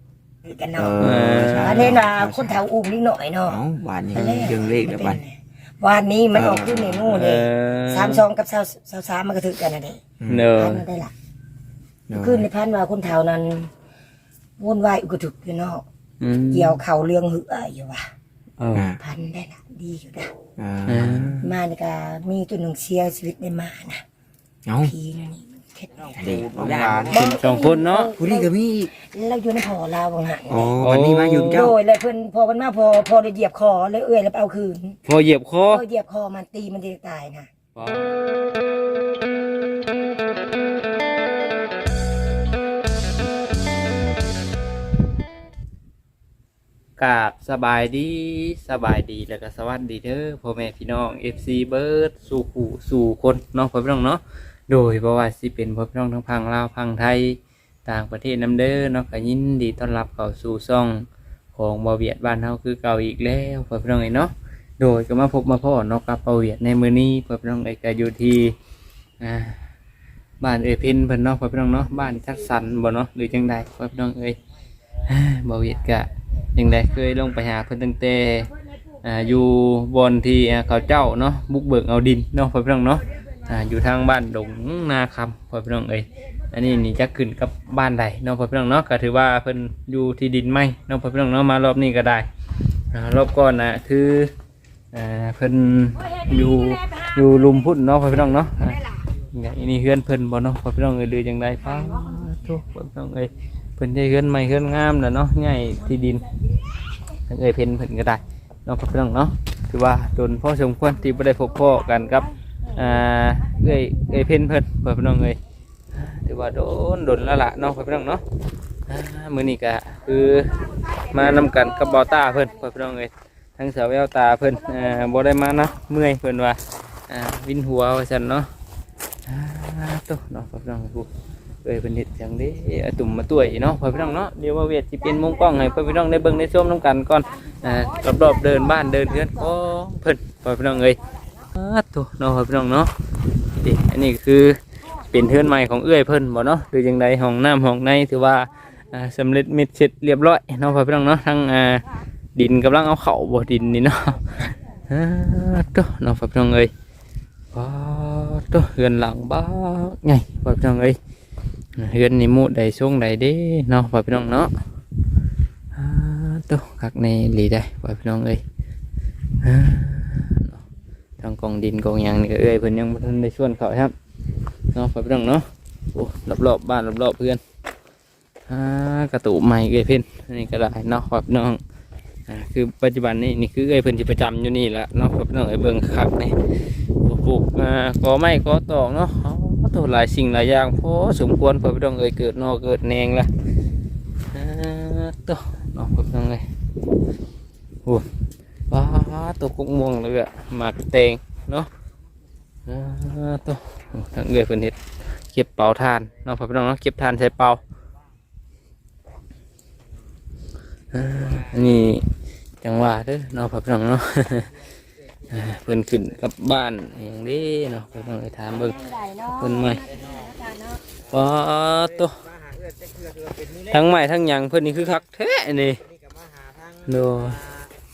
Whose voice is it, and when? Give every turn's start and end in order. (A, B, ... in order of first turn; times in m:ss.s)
0:00.4-0:03.6 A
0:00.8-0:02.6 B
0:01.0-0:02.0 C
0:03.5-0:05.2 B
0:04.1-0:11.1 A
0:06.3-0:07.2 B
0:07.1-0:08.2 C
0:10.2-0:10.5 B
0:10.3-0:10.8 C
0:12.1-0:12.5 B
0:12.1-0:13.7 A
0:14.6-0:15.8 A
0:16.2-0:16.8 C
0:16.5-0:18.1 A
0:18.7-0:19.0 B
0:19.0-0:20.3 A
0:20.6-0:21.5 B
0:20.9-0:21.4 C
0:21.4-0:24.0 A
0:24.6-0:24.9 B
0:24.8-0:30.7 A
0:26.0-0:27.3 B
0:26.6-0:28.1 C
0:28.2-0:28.9 B
0:30.5-0:31.8 B
0:30.8-0:31.7 C
0:31.5-0:35.0 A
0:35.0-0:35.8 C
0:35.7-0:37.5 A
0:37.8-0:38.1 C
0:47.0-1:08.5 C
1:09.2-1:09.6 C
1:10.4-1:14.4 C
1:15.1-1:18.5 C
1:19.0-1:32.3 C
1:32.9-1:34.3 C
1:34.9-1:38.8 C
1:36.0-1:39.0 A
1:39.3-1:46.2 C
1:41.7-1:42.2 A
1:47.3-1:55.4 C
1:56.0-1:58.2 C
1:58.9-2:08.5 C
2:01.4-2:02.5 A
2:04.9-2:05.1 A
2:09.2-2:11.1 C
2:11.6-2:21.0 C
2:15.1-2:15.8 A
2:17.8-2:19.5 A
2:21.5-2:22.9 C
2:23.5-2:24.6 C
2:25.1-2:31.8 C
2:32.3-2:36.7 C
2:37.5-2:41.0 C
2:41.8-2:44.5 C
2:45.7-2:48.4 C
2:49.4-2:50.6 C
2:51.2-2:53.9 C
2:54.7-2:57.4 C
2:58.5-3:01.6 C
3:02.3-3:13.3 C
3:14.3-3:16.4 C
3:18.7-3:21.7 C
3:22.7-3:24.8 C
3:25.3-3:27.6 C
3:30.9-3:32.1 C
3:32.6-3:34.5 C
3:35.3-3:38.8 C
3:38.5-3:40.8 A
3:39.4-3:39.8 C
3:41.1-3:42.2 C
3:41.1-3:44.0 B
3:43.7-3:45.8 C
3:45.8-3:47.7 B
3:46.9-3:47.4 C